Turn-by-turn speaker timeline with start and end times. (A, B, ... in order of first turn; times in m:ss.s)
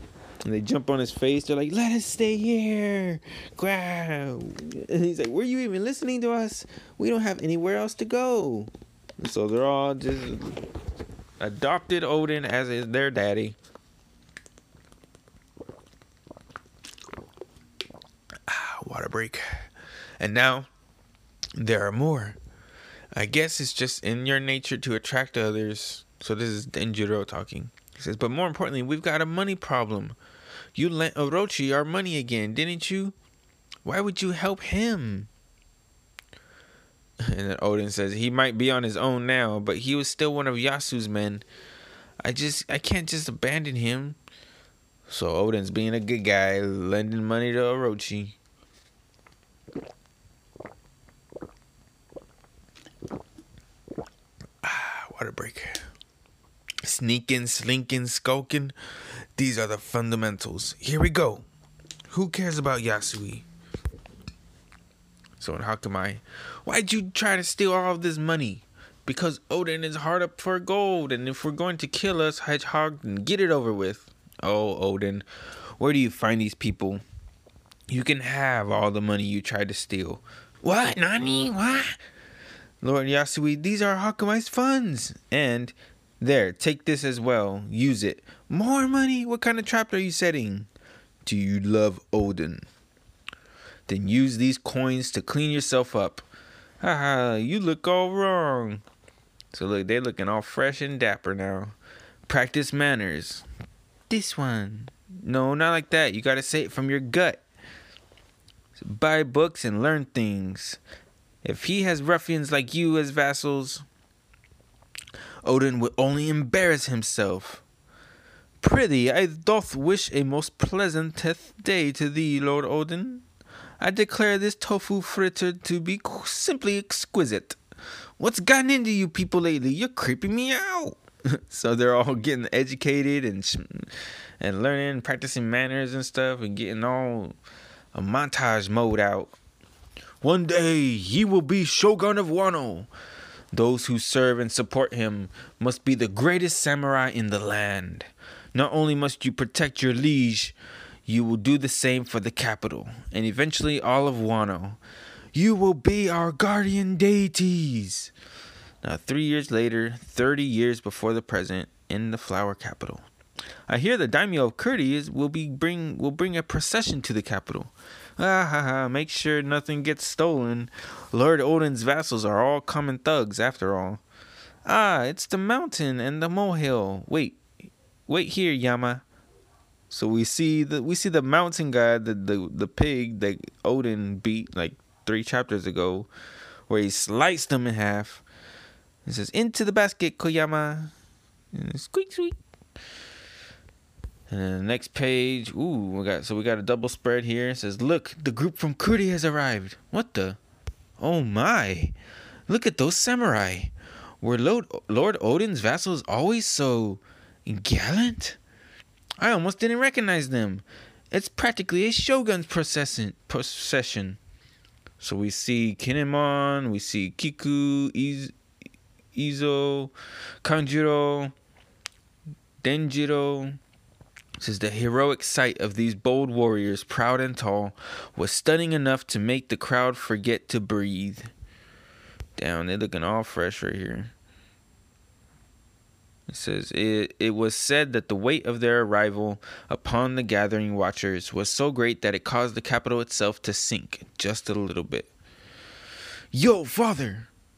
0:00.4-0:10.6 A
0:11.4-0:13.6 A
0:18.5-0:19.7 A
0:20.2-0:20.7 A
0:21.6-0:22.4 A
0:23.1-0:30.2 A
0:30.8-0:33.1 A
0:33.8-0:35.3 A
0:37.2-0:41.4 A
0:42.2-0:44.2 A
0:45.1-0:48.4 A
0:54.6-0:55.8 A
0:56.8-0:58.8 A
0:59.4-1:01.4 A
1:02.1-1:03.4 A
1:05.4-1:15.3 A
1:15.8-1:17.0 A
1:17.9-1:22.0 A
1:22.8-1:30.7 A
1:31.2-1:32.7 A
1:33.9-1:36.3 A
1:36.8-1:38.8 A
1:39.5-1:41.8 A
1:42.3-1:43.4 A
1:44.1-1:47.4 A
1:48.8-1:50.8 A
1:51.4-1:53.8 A
1:55.4-1:57.6 A
1:58.6-2:03.2 A
2:03.8-2:07.6 A
2:08.2-2:17.4 A
2:17.9-2:19.3 A
2:20.2-2:22.9 A
2:23.5-2:30.6 A
2:31.1-2:34.8 A
2:35.3-2:38.1 A
2:38.8-2:43.0 A
2:43.7-2:54.0 A
2:54.6-2:57.4 A
2:58.1-2:59.0 A
2:59.9-3:06.1 A
3:06.7-3:08.2 A
3:09.0-3:10.9 A
3:11.5-3:12.4 A
3:14.3-3:20.4 A
3:21.0-3:21.9 A
3:22.5-3:28.4 A
3:29.2-3:34.2 A
3:35.0-3:38.3 A
3:39.1-3:39.9 A
3:40.4-3:41.3 A
3:42.6-3:43.6 A
3:44.4-3:51.3 A
3:52.4-3:54.1 A
3:56.3-4:05.1 A
4:06.3-4:07.3 A